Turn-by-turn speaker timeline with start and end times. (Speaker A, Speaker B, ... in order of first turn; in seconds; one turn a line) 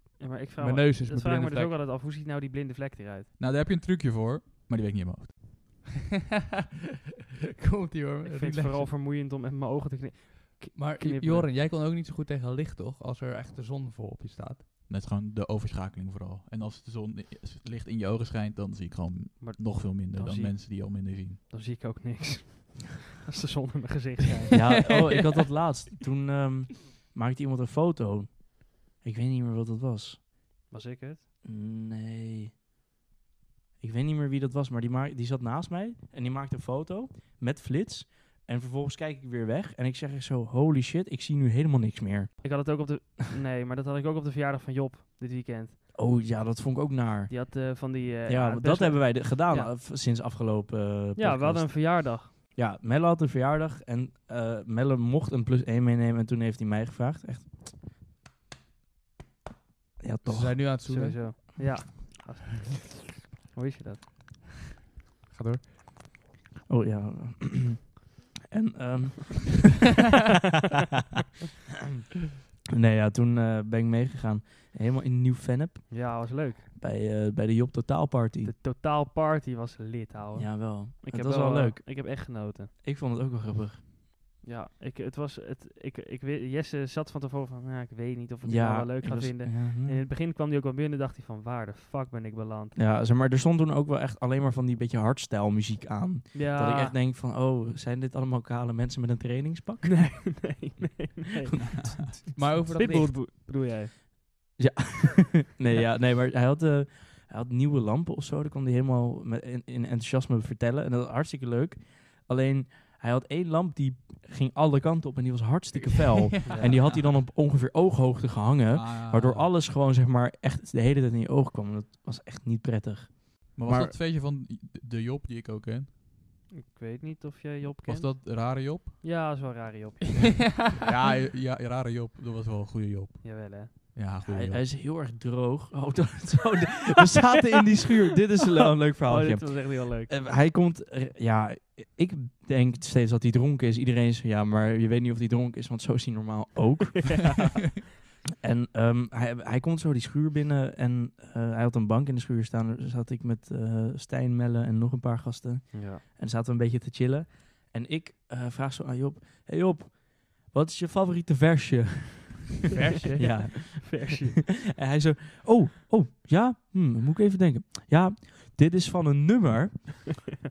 Speaker A: 0.2-3.3
Speaker B: 0.6-1.7
Speaker C: 3.4-5.4
Speaker B: 7.6-8.9
Speaker A: 8.2-11.5
Speaker B: 10.7-14.6
Speaker C: 14.9-21.4
Speaker A: 19.4-24.6
Speaker D: 24.5-30.2
Speaker B: 24.9-25.2
Speaker A: 30.7-31.2
Speaker D: 31.4-32.5
Speaker D: 33.8-42.3
Speaker A: 42.4-45.8
Speaker D: 45.9-57.7
Speaker A: 47.3-49.7
Speaker A: 51.1-52.3
Speaker D: 60.0-60.7
Speaker B: 60.2-61.5
Speaker A: 60.9-64.0
Speaker B: 65.3-65.6
Speaker D: 66.7-69.9
Speaker D: 72.7-76.1
Speaker A: 75.9-76.6
Speaker D: 76.7-78.5
Speaker A: 78.4-82.7
Speaker D: 80.3-81.9
Speaker D: 82.8-83.8
Speaker A: 84.4-92.8
Speaker D: 88.4-90.0
Speaker D: 92.7-100.3
Speaker A: 96.3-97.0
Speaker A: 99.8-102.1
Speaker D: 101.8-102.3
Speaker B: 102.3-103.2
Speaker A: 102.7-103.9
Speaker D: 104.6-123.9
Speaker B: 116.3-116.8
Speaker A: 116.4-116.8
Speaker C: 118.7-119.5
Speaker C: 123.5-125.9
Speaker A: 126.5-130.4
Speaker C: 127.8-129.0
Speaker B: 130.4-130.9
Speaker C: 130.8-134.6
Speaker A: 133.2-133.7
Speaker D: 134.2-147.4
Speaker A: 139.0-140.1
Speaker A: 147.1-147.4
Speaker D: 148.4-162.6
Speaker A: 155.7-156.0
Speaker B: 162.7-163.3
Speaker A: 163.1-164.4
Speaker D: 163.2-170.2